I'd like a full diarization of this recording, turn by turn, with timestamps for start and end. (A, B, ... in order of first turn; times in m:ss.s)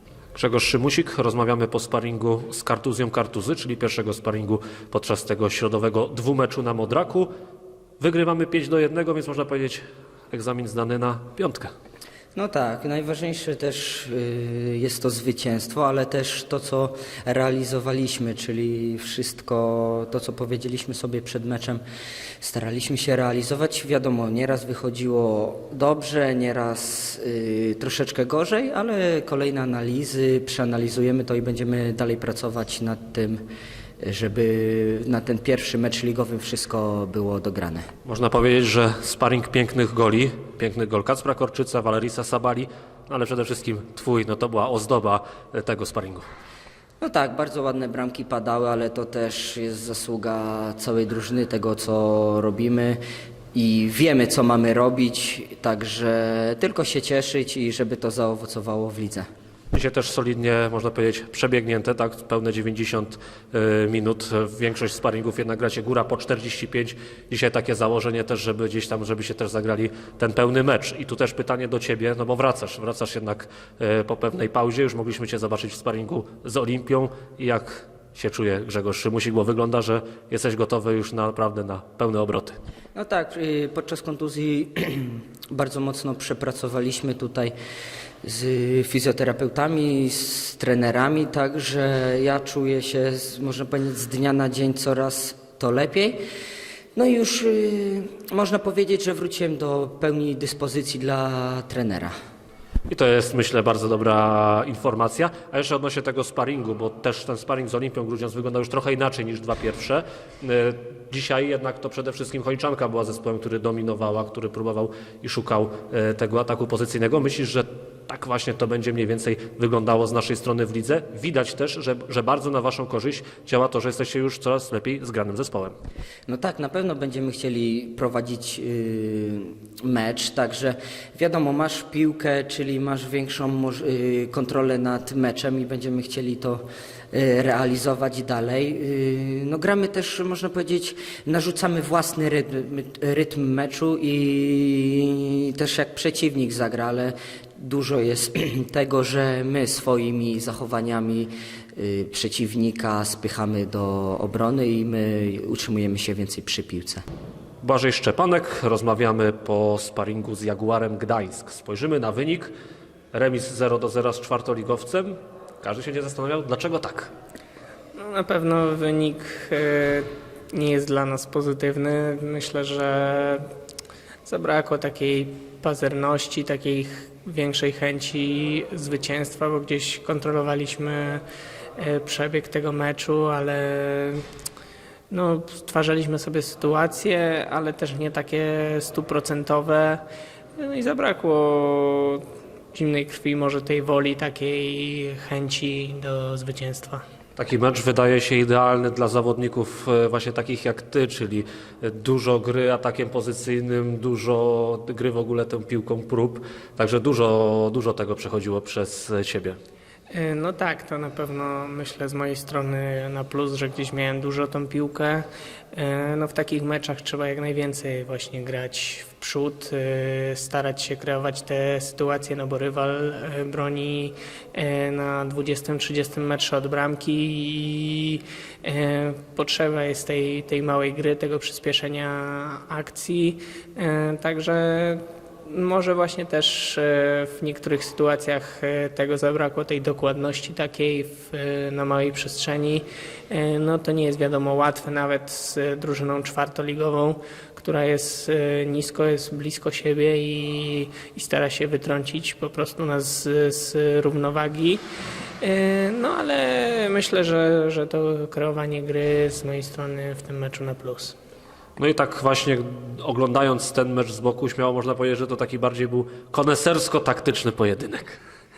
0:00.4-0:07.3 A
0:08.0-0:11.7 A
0:12.4-0:21.8 B
0:22.4-0:33.4 B
0:34.0-0:37.9 B
0:38.0-0:46.2 A
0:47.0-0:53.0 B
0:53.5-0:59.3 B
0:59.7-1:22.6 A
1:23.0-1:27.5 B
1:28.2-1:36.2 B
1:37.0-1:42.1 B
1:42.9-2:05.7 A
2:06.3-2:37.0 B
2:37.6-2:42.5 A
2:43.1-2:47.1 A
2:48.0-2:53.4 C
2:54.2-3:01.2 C
3:01.8-3:04.2 C
3:05.1-3:10.0 C
3:10.6-3:12.2 C
3:12.7-3:17.0 C
3:17.4-3:29.6 A
3:30.1-4:14.8 C
4:15.4-4:21.2 C
4:21.8-4:28.2 A